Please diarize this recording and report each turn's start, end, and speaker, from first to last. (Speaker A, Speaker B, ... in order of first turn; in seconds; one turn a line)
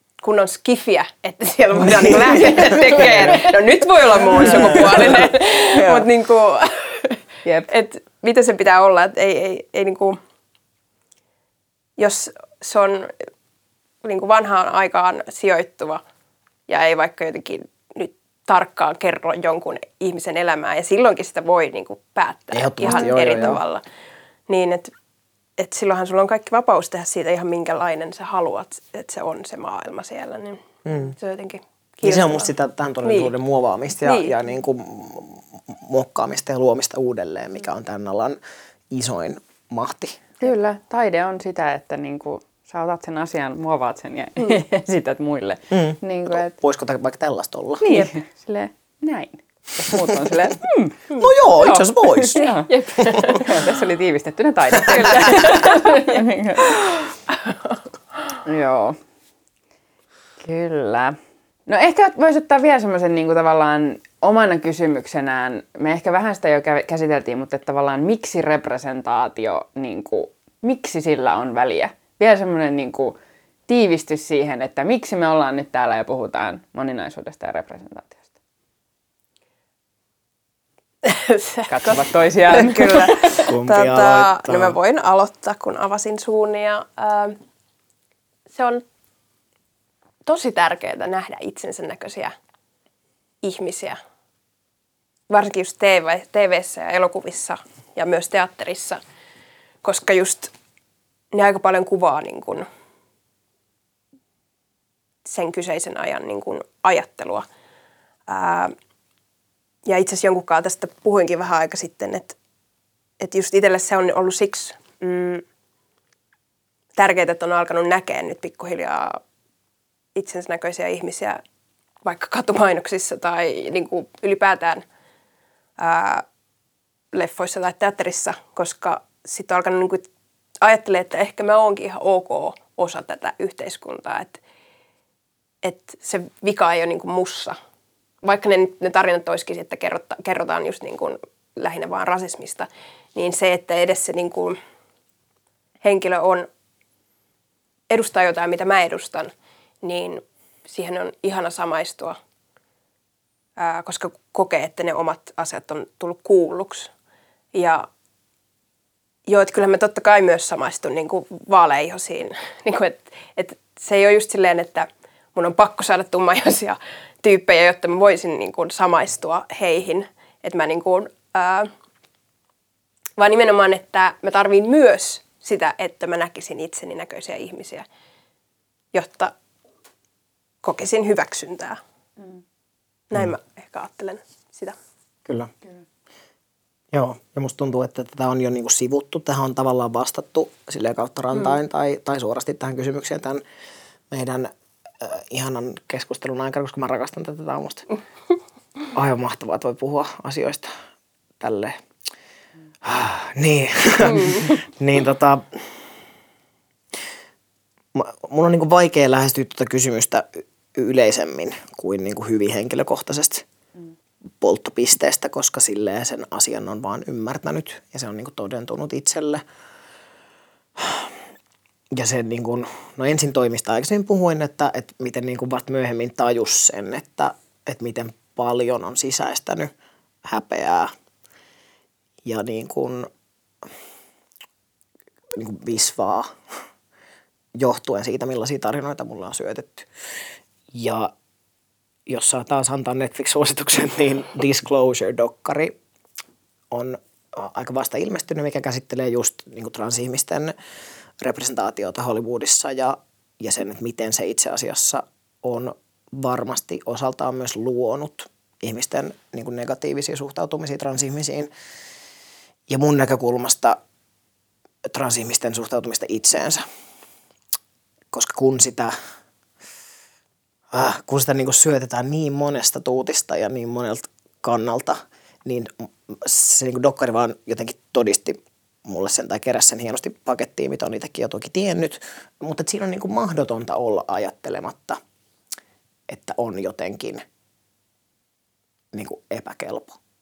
Speaker A: 0.2-10.2
Speaker B: 1.8-3.3
Speaker C: 4.4-5.0
Speaker B: 4.5-4.9
Speaker C: 5.7-6.1
Speaker C: 7.5-7.7
Speaker A: 12.0-13.1
Speaker A: 14.0-16.0
Speaker A: 16.7-23.8
Speaker B: 22.5-23.6
Speaker A: 24.5-24.9
Speaker A: 25.6-32.5
Speaker B: 30.9-31.1
Speaker B: 32.0-38.4
Speaker A: 33.0-33.3
Speaker A: 34.0-34.4
Speaker B: 38.9-40.2
Speaker C: 40.4-46.5
Speaker B: 45.7-47.9
Speaker C: 47.8-51.0
Speaker B: 51.2-52.4
Speaker C: 51.6-56.8
Speaker A: 52.4-53.6
Speaker A: 54.9-57.0
Speaker C: 58.4-59.0
Speaker C: 60.4-73.2
Speaker C: 73.7-78.2
Speaker A: 81.0-87.4
Speaker C: 81.7-83.4
Speaker B: 83.5-84.8
Speaker A: 88.5-88.8
Speaker A: 90.2-92.3
Speaker A: 93.4-94.0
Speaker A: 95.3-99.0
Speaker A: 99.8-100.5
Speaker A: 101.3-102.7
Speaker A: 105.2-107.5
Speaker A: 108.3-108.7
Speaker A: 109.9-112.4
Speaker A: 113.2-115.4
Speaker A: 117.0-119.2
Speaker A: 120.2-121.4
Speaker A: 122.0-124.8
Speaker A: 125.8-126.2
Speaker A: 127.1-130.1
Speaker A: 130.6-134.4
Speaker A: 135.6-137.6
Speaker A: 138.2-144.6
Speaker A: 145.8-146.5
Speaker A: 147.9-149.3
Speaker A: 149.8-152.2
Speaker A: 153.6-156.9
Speaker A: 157.5-157.9
Speaker A: 159.3-171.7
Speaker A: 173.2-177.9
Speaker A: 178.9-179.3
Speaker A: 180.6-181.8
Speaker A: 183.1-184.8
Speaker B: 185.3-185.5
Speaker B: 186.9-193.4
Speaker B: 194.1-197.9
Speaker B: 198.9-200.7
Speaker B: 201.4-201.8
Speaker B: 202.8-205.8
Speaker A: 204.1-204.6
Speaker B: 207.9-213.5
Speaker B: 214.4-219.4
Speaker B: 220.8-221.2
Speaker B: 221.9-229.7
Speaker B: 230.3-230.9
Speaker B: 232.2-233.1
Speaker B: 235.3-236.3
Speaker B: 237.6-239.9
Speaker B: 240.7-241.1
Speaker B: 242.1-245.8
Speaker B: 246.7-250.5
Speaker B: 251.2-261.5
Speaker B: 262.7-263.8
Speaker B: 264.9-266.6
Speaker B: 268.1-268.9
Speaker B: 270.7-285.0
Speaker B: 286.1-287.2
Speaker B: 288.9-290.0